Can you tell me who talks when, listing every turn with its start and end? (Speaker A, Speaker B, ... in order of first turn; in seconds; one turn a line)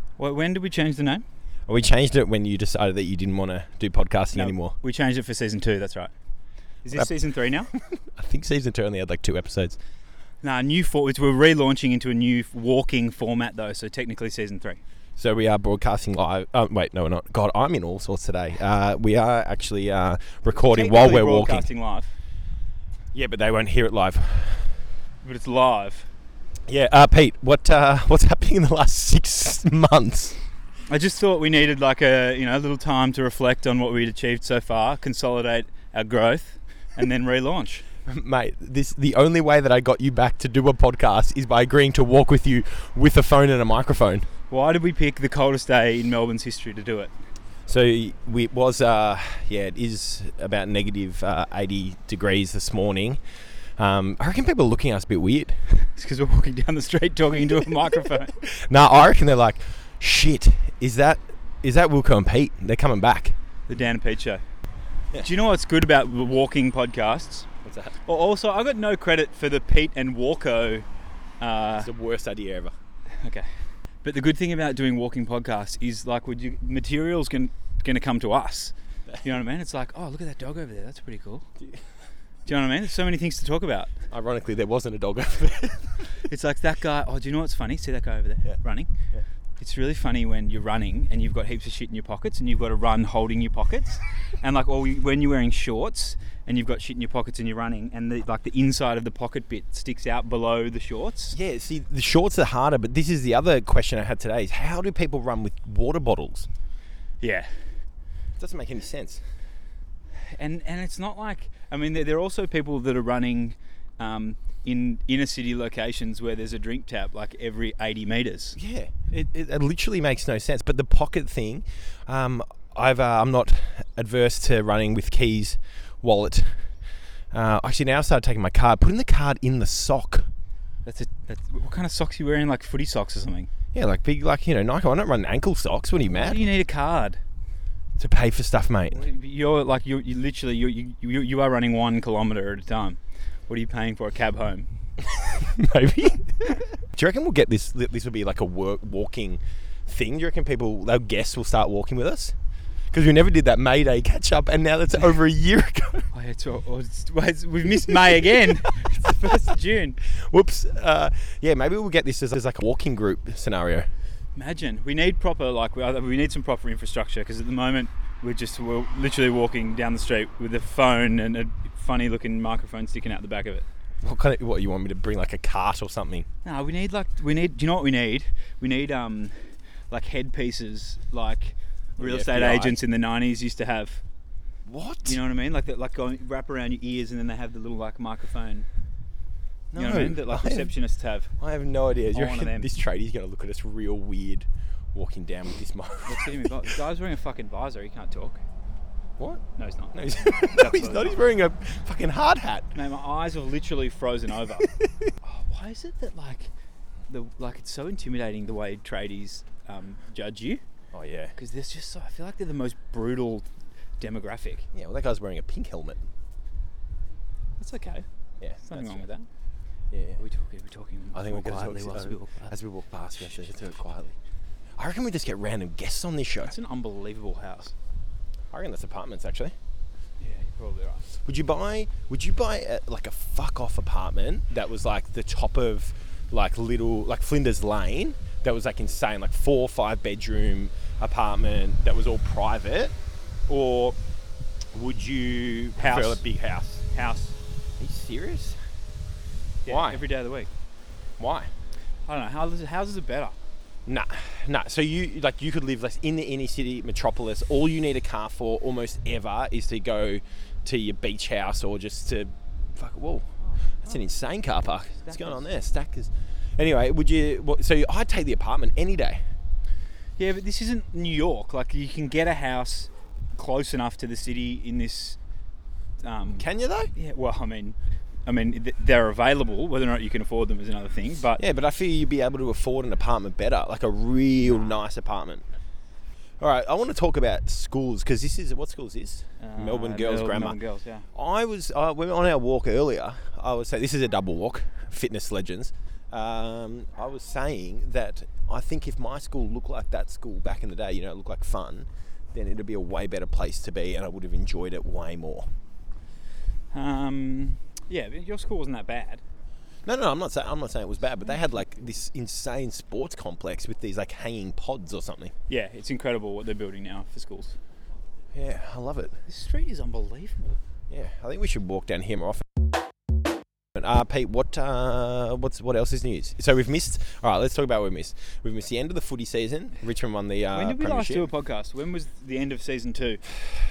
Speaker A: 0.2-1.2
Speaker B: 1.7-4.8
Speaker A: 4.3-6.1
Speaker A: 6.8-7.7
Speaker B: 6.9-9.8
Speaker A: 10.4-14.8
Speaker B: 15.2-21.7
Speaker A: 20.5-22.2
Speaker B: 23.1-24.8
Speaker A: 25.2-26.1
Speaker B: 26.7-30.4
Speaker A: 30.9-37.8
Speaker B: 38.0-44.3
Speaker A: 44.5-47.1
Speaker B: 47.7-53.2
Speaker B: 53.8-55.5
Speaker A: 55.8-58.3
Speaker B: 58.4-63.4
Speaker A: 63.7-64.4
Speaker A: 65.2-67.5
Speaker B: 67.6-68.0
Speaker A: 68.1-70.8
Speaker A: 71.4-71.9
Speaker B: 71.8-72.7
Speaker A: 74.0-81.5
Speaker A: 82.5-83.9
Speaker B: 84.1-86.0
Speaker A: 86.1-88.9
Speaker A: 89.6-101.3
Speaker B: 101.3-106.5
Speaker A: 107.2-107.5
Speaker B: 108.4-109.2
Speaker A: 110.3-118.6
Speaker B: 118.5-126.7
Speaker B: 127.3-130.3
Speaker A: 130.8-133.5
Speaker B: 133.7-136.4
Speaker A: 136.1-137.2
Speaker B: 138.0-139.1
Speaker A: 138.9-144.7
Speaker B: 145.1-152.3
Speaker B: 152.9-156.1
Speaker A: 156.1-160.0
Speaker B: 157.9-159.4
Speaker B: 160.1-163.9
Speaker A: 164.3-173.7
Speaker B: 174.0-176.2
Speaker A: 176.4-179.3
Speaker A: 179.9-184.0
Speaker B: 182.0-182.8
Speaker B: 184.7-185.2
Speaker A: 185.1-188.7
Speaker B: 189.7-190.7
Speaker A: 189.8-191.3
Speaker B: 191.4-196.7
Speaker A: 192.1-192.7
Speaker A: 196.1-198.4
Speaker A: 199.6-201.3
Speaker B: 199.9-202.7
Speaker A: 202.7-204.7
Speaker A: 205.2-206.5
Speaker A: 207.1-210.6
Speaker B: 210.9-211.3
Speaker A: 211.4-214.7
Speaker B: 214.7-216.1
Speaker A: 217.6-218.1
Speaker B: 218.4-219.0
Speaker A: 218.6-219.3
Speaker B: 219.9-220.2
Speaker A: 220.2-222.5
Speaker B: 221.1-224.2
Speaker B: 224.8-226.5
Speaker A: 226.4-227.7
Speaker B: 228.5-229.5
Speaker A: 230.2-231.1
Speaker B: 231.2-242.9
Speaker A: 243.5-244.0
Speaker B: 244.7-246.8
Speaker A: 245.8-246.2
Speaker A: 246.8-247.4
Speaker B: 247.8-248.6
Speaker A: 249.6-250.5
Speaker B: 249.7-250.1
Speaker B: 251.2-251.5
Speaker A: 252.1-253.4
Speaker B: 253.9-263.3
Speaker A: 263.4-264.0
Speaker B: 263.8-269.2
Speaker A: 265.0-265.4
Speaker A: 270.2-275.2
Speaker A: 276.0-281.4
Speaker B: 276.4-276.9
Speaker B: 281.4-285.5
Speaker B: 286.4-290.6
Speaker A: 289.4-291.1
Speaker B: 291.1-305.5
Speaker A: 306.7-309.2
Speaker B: 309.9-315.3
Speaker A: 315.5-317.6
Speaker B: 318.3-319.1
Speaker A: 319.3-320.6
Speaker B: 320.9-322.5
Speaker B: 323.8-331.3
Speaker A: 330.5-333.2